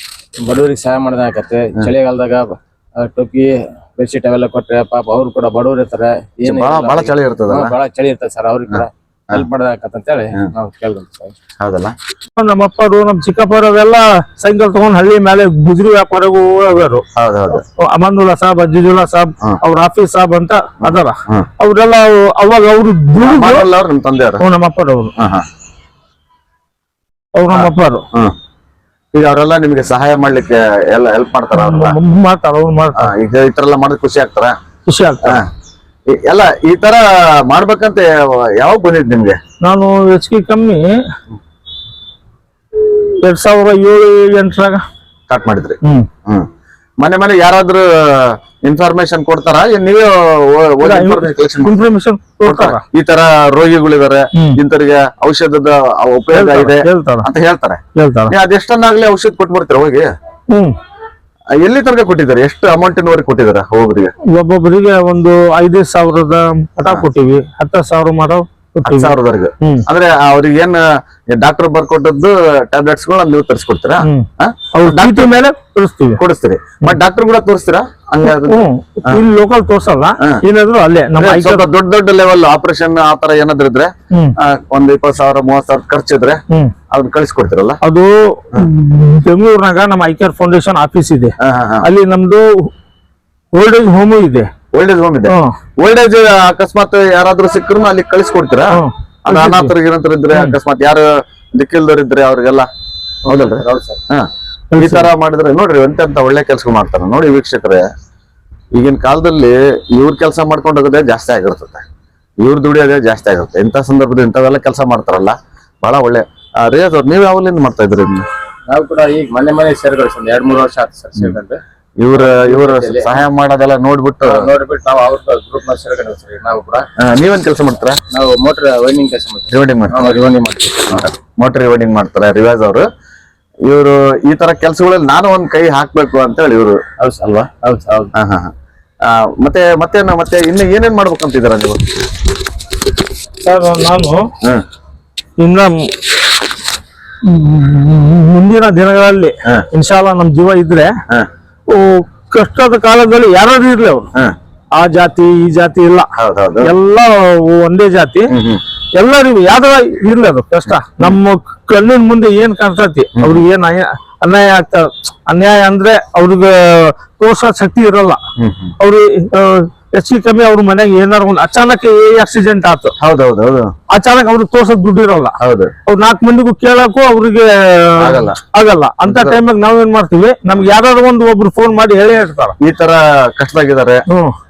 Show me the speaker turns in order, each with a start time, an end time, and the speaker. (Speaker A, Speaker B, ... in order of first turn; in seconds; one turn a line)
Speaker A: 0.4-11.3
Speaker B: 6.5-7.7
Speaker B: 8.7-9.4
Speaker B: 11.6-11.9
Speaker C: 12.3-17.0
Speaker B: 17.1-17.6
Speaker C: 17.8-23.7
Speaker B: 20.8-21.5
Speaker B: 23.2-24.4
Speaker C: 24.4-25.1
Speaker B: 25.2-25.4
Speaker C: 27.3-28.0
Speaker B: 27.5-28.3
Speaker B: 29.1-32.0
Speaker C: 31.5-33.1
Speaker B: 33.0-34.5
Speaker C: 34.9-35.4
Speaker B: 36.1-39.4
Speaker C: 39.6-40.9
Speaker C: 42.8-44.8
Speaker B: 45.3-46.5
Speaker C: 45.8-46.1
Speaker B: 47.0-51.8
Speaker C: 50.8-52.8
Speaker B: 52.4-60.1
Speaker C: 56.3-57.3
Speaker C: 58.0-58.3
Speaker C: 60.5-60.8
Speaker B: 61.6-64.1
Speaker C: 64.3-69.8
Speaker B: 68.8-75.3
Speaker C: 74.0-76.2
Speaker B: 76.2-79.2
Speaker C: 78.2-81.7
Speaker B: 81.2-87.8
Speaker C: 84.1-84.3
Speaker C: 87.8-92.7
Speaker B: 91.4-91.9
Speaker C: 93.5-94.5
Speaker B: 94.7-102.7
Speaker C: 98.7-99.7
Speaker B: 103.2-107.9
Speaker A: 103.3-104.0
Speaker C: 104.7-105.1
Speaker B: 108.7-111.8
Speaker B: 112.4-118.2
Speaker A: 118.7-121.6
Speaker B: 122.0-124.4
Speaker A: 122.1-123.2
Speaker A: 124.2-126.9
Speaker B: 127.0-128.0
Speaker A: 128.1-131.1
Speaker B: 129.5-130.0
Speaker B: 130.9-132.8
Speaker B: 133.6-136.8
Speaker A: 137.0-138.1
Speaker B: 138.1-141.8
Speaker C: 143.4-144.2
Speaker C: 145.4-146.2
Speaker C: 147.2-150.9
Speaker C: 151.7-154.1
Speaker C: 154.7-156.1
Speaker B: 156.2-156.7
Speaker C: 156.6-158.3
Speaker B: 158.3-158.6
Speaker C: 158.9-168.2
Speaker B: 163.2-163.4
Speaker B: 168.4-168.8
Speaker C: 168.8-172.9
Speaker B: 173.0-173.7
Speaker C: 173.9-182.6
Speaker B: 175.4-175.7
Speaker B: 178.0-178.4
Speaker B: 179.0-179.4
Speaker B: 182.6-184.0